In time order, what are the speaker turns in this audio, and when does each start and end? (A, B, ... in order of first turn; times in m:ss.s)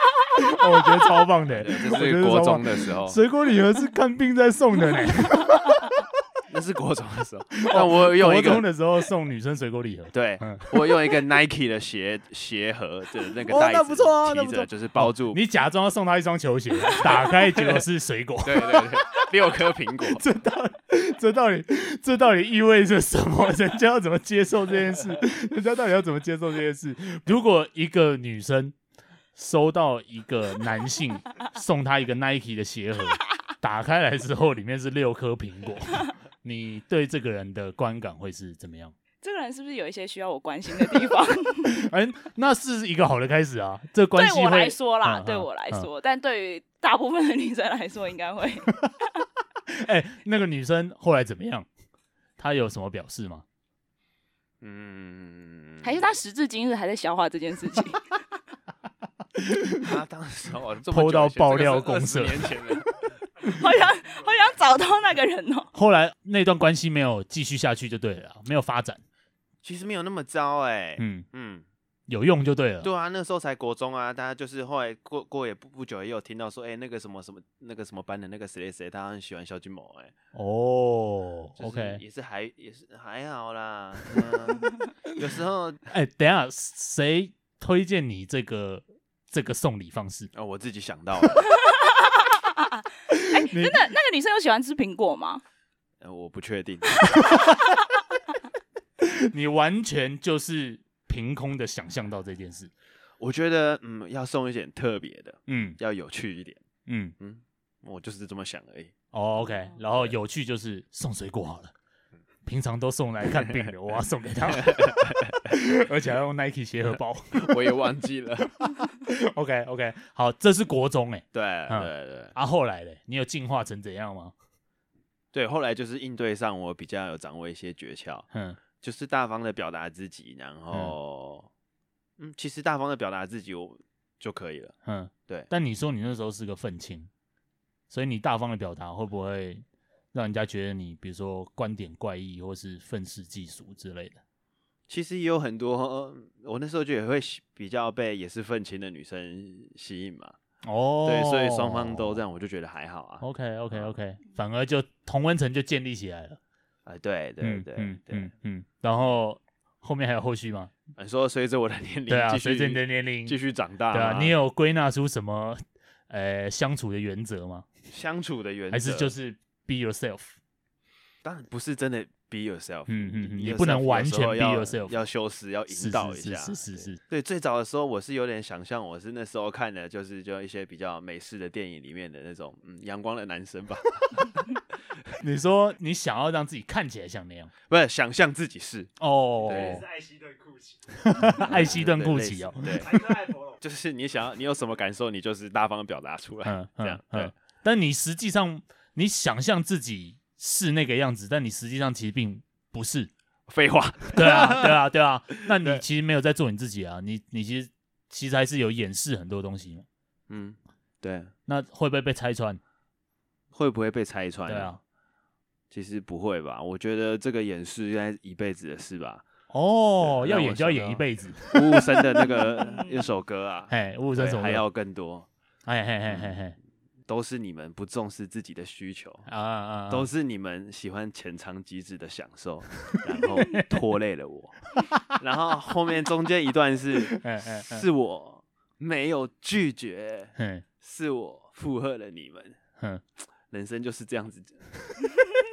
0:00.4-0:05.9 A
0:01.5-0:03.2 B
0:06.5-0:08.7 B
0:07.6-0:11.0 A
0:10.1-0:15.4 B
0:13.5-0:19.5 A
0:16.9-0:17.8 B
0:18.4-0:20.2 B
0:20.1-0:28.7 A
0:29.4-0:38.9 A
0:39.2-0:41.7 C
0:41.6-0:45.9 A
0:44.1-0:49.2 C
0:49.7-0:51.7 A
0:52.4-0:53.4 A
0:54.6-0:56.0 B
0:55.8-0:58.1 C
0:59.4-0:59.9 A
0:59.8-1:02.9 B
1:00.9-1:02.7 A
1:03.4-1:04.6 D
1:03.5-1:05.7 C
1:05.7-1:09.0 A
1:09.6-1:11.6 B
1:11.0-1:11.2 A
1:12.1-1:12.9 A
1:12.8-1:20.1 B
1:20.3-1:22.0 A
1:21.6-1:25.8 B
1:25.9-1:30.3 A
1:30.3-1:31.5 B
1:31.7-1:35.4 C
1:33.1-1:33.8 A
1:36.0-1:37.0 B
1:37.1-1:37.7 A
1:39.0-1:42.7 A
1:43.2-1:46.6 B
1:45.5-1:45.8 A
1:46.9-1:47.1 A
1:47.2-1:48.9 B
1:49.1-1:51.7 A
1:52.4-1:57.7 A
1:54.6-1:55.4 B
1:57.3-1:58.5 B
1:58.6-2:04.3 A
2:01.3-2:02.3 B
2:05.3-2:08.3 B
2:08.3-2:08.6 A
2:08.8-2:11.5 B
2:12.2-2:14.7 B
2:14.8-2:17.1 A
2:17.9-2:24.2 A
2:24.9-2:30.4 B
2:30.6-2:32.2 A
2:31.0-2:33.9 B
2:33.2-2:36.4 A
2:36.9-2:38.3 B
2:37.4-2:40.7 A
2:41.0-2:44.4 B
2:42.1-2:43.4 A
2:43.9-2:47.7 A
2:47.9-2:49.1 B
2:48.7-2:50.4 A
2:51.2-3:04.3 B
2:52.9-2:55.0 A
2:55.7-2:57.0 A
3:05.2-3:07.5 A
3:07.7-3:08.9 B
3:09.0-3:09.8 A
3:09.4-3:09.8 B
3:09.4-3:11.4 D
3:11.0-3:13.0 A
3:11.4-3:13.0 B
3:12.8-3:13.6 D
3:13.6-3:17.3 B
3:16.4-3:23.1 A
3:23.5-3:24.8 B
3:24.1-3:29.9 A
3:25.4-3:25.8 B
3:30.3-3:31.3 B
3:31.5-3:32.6 A
3:33.5-3:34.8 B
3:34.5-3:34.8 A
3:35.7-3:39.2 B
3:39.5-3:42.5 A
3:40.0-3:45.3 B
3:43.7-3:44.6 A
3:45.6-3:46.6 A
3:46.1-3:46.4 B
3:47.1-3:49.3 B
3:49.3-3:50.1 A
3:49.9-3:54.6 B
3:53.4-3:53.6 A
3:55.1-4:02.6 B
3:57.1-3:57.9 A
4:00.4-4:00.6 A
4:03.5-4:04.8 B